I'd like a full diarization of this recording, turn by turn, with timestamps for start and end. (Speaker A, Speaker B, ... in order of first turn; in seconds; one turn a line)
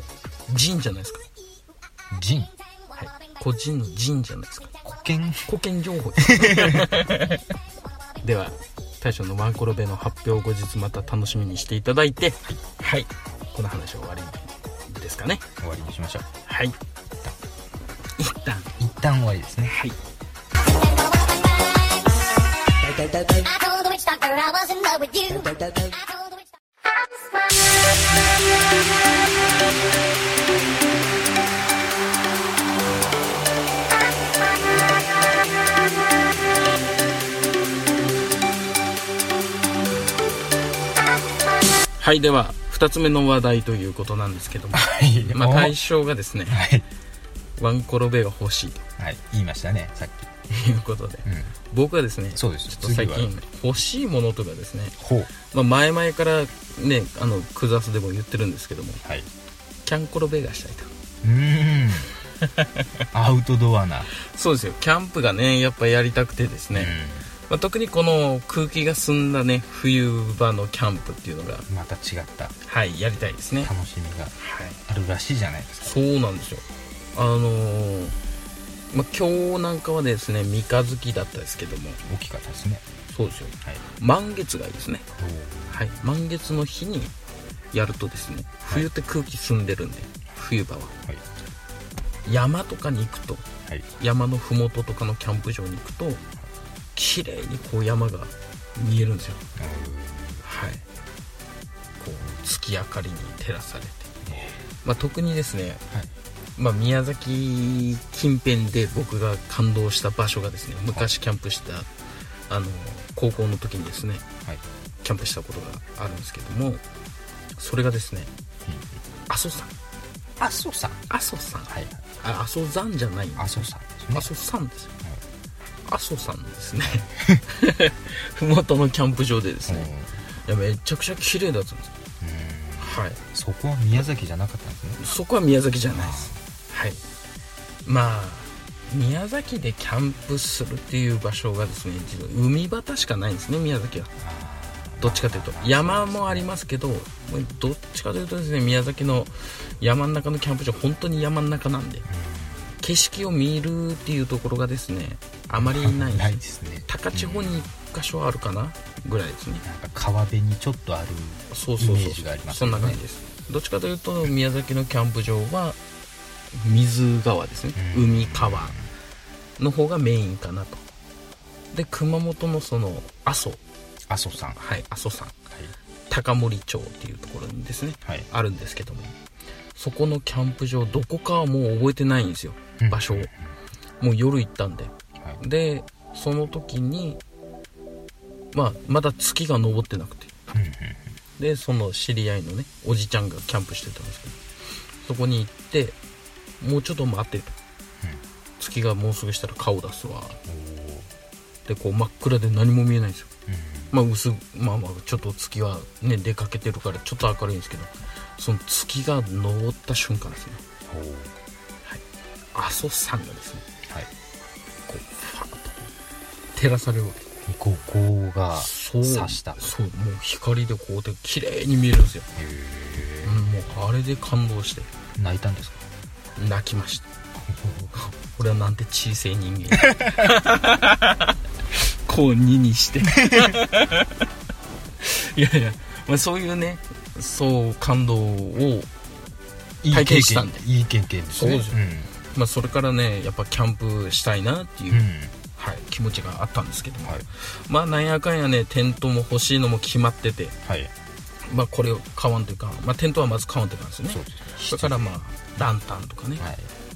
Speaker A: 0.5-1.2
Speaker B: 2.1-2.5
Speaker A: 2.9-4.7
Speaker B: 4.8-5.5
Speaker A: 5.5-7.4
Speaker B: 6.2-6.9
Speaker A: 8.2-15.4
Speaker B: 15.6-16.3
Speaker A: 16.5-16.8
Speaker A: 18.2-18.7
Speaker B: 18.8-19.8
Speaker A: 19.7-19.9
Speaker C: 20.8-22.1
Speaker C: 22.7-26.5
Speaker A: 42.0-46.6
Speaker B: 44.7-45.8
Speaker B: 46.5-46.8
Speaker A: 47.6-48.8
Speaker B: 49.0-50.3
Speaker A: 50.5-59.0
Speaker B: 51.2-51.5
Speaker B: 52.3-53.4
Speaker B: 55.0-55.3
Speaker A: 59.8-60.9
Speaker B: 61.2-62.1
Speaker A: 62.4-62.9
Speaker B: 63.1-64.1
Speaker A: 64.2-66.9
Speaker B: 66.7-67.3
Speaker A: 67.5-71.7
Speaker B: 71.7-72.5
Speaker A: 72.6-73.7
Speaker B: 73.6-74.3
Speaker A: 74.3-74.8
Speaker B: 74.9-76.0
Speaker A: 75.8-78.2
Speaker A: 78.9-82.0
Speaker B: 82.0-82.8
Speaker A: 83.1-85.1
Speaker B: 85.1-85.9
Speaker A: 85.7-87.1
Speaker A: 87.7-90.9
Speaker A: 92.2-93.4
Speaker A: 94.0-96.2
Speaker A: 96.9-99.4
Speaker B: 99.5-100.4
Speaker A: 100.4-100.8
Speaker A: 102.0-104.2
Speaker B: 104.2-104.5
Speaker A: 104.8-105.8
Speaker A: 106.5-111.9
Speaker A: 112.5-114.2
Speaker A: 115.0-116.8
Speaker A: 117.6-118.3
Speaker A: 119.3-119.7
Speaker B: 120.4-121.0
Speaker A: 121.1-121.7
Speaker B: 121.7-122.0
Speaker A: 122.2-124.9
Speaker B: 123.3-124.3
Speaker A: 125.8-129.9
Speaker B: 127.1-127.4
Speaker B: 129.7-130.2
Speaker A: 130.4-131.9
Speaker B: 132.2-135.0
Speaker A: 132.8-133.2
Speaker A: 135.0-137.0
Speaker B: 135.9-136.4
Speaker A: 137.8-144.1
Speaker B: 144.2-146.5
Speaker A: 145.0-152.1
Speaker B: 152.1-152.7
Speaker A: 152.8-159.6
Speaker B: 155.5-157.7
Speaker B: 159.6-163.0
Speaker A: 161.5-165.8
Speaker A: 166.5-168.8
Speaker B: 167.7-168.9
Speaker A: 169.6-170.8
Speaker A: 171.7-173.6
Speaker B: 174.1-174.6
Speaker A: 174.6-175.3
Speaker A: 176.1-179.1
Speaker A: 179.7-183.3
Speaker B: 182.8-183.5
Speaker A: 184.0-187.2
Speaker A: 188.5-190.4
Speaker B: 190.5-191.2
Speaker A: 191.4-194.4
Speaker A: 195.0-196.0
Speaker A: 196.6-197.6
Speaker A: 198.6-200.4
Speaker B: 200.5-201.1
Speaker A: 201.7-203.3
Speaker B: 203.5-203.9
Speaker A: 203.9-210.6
Speaker B: 210.9-211.3
Speaker A: 212.5-213.6
Speaker A: 214.9-215.9
Speaker A: 216.5-217.2
Speaker B: 217.4-219.7
Speaker A: 218.6-222.3
Speaker B: 222.3-223.4
Speaker A: 223.2-224.9
Speaker B: 225.2-225.8
Speaker A: 226.4-227.0
Speaker B: 227.3-227.9
Speaker A: 228.0-234.2
Speaker B: 229.8-230.2
Speaker B: 233.1-233.6
Speaker A: 235.0-238.9
Speaker B: 239.8-242.1
Speaker A: 239.9-240.6
Speaker A: 241.3-245.0
Speaker B: 244.9-245.3
Speaker A: 245.6-250.6
Speaker B: 250.6-250.9
Speaker A: 251.5-256.4
Speaker B: 254.1-255.2
Speaker B: 256.4-256.7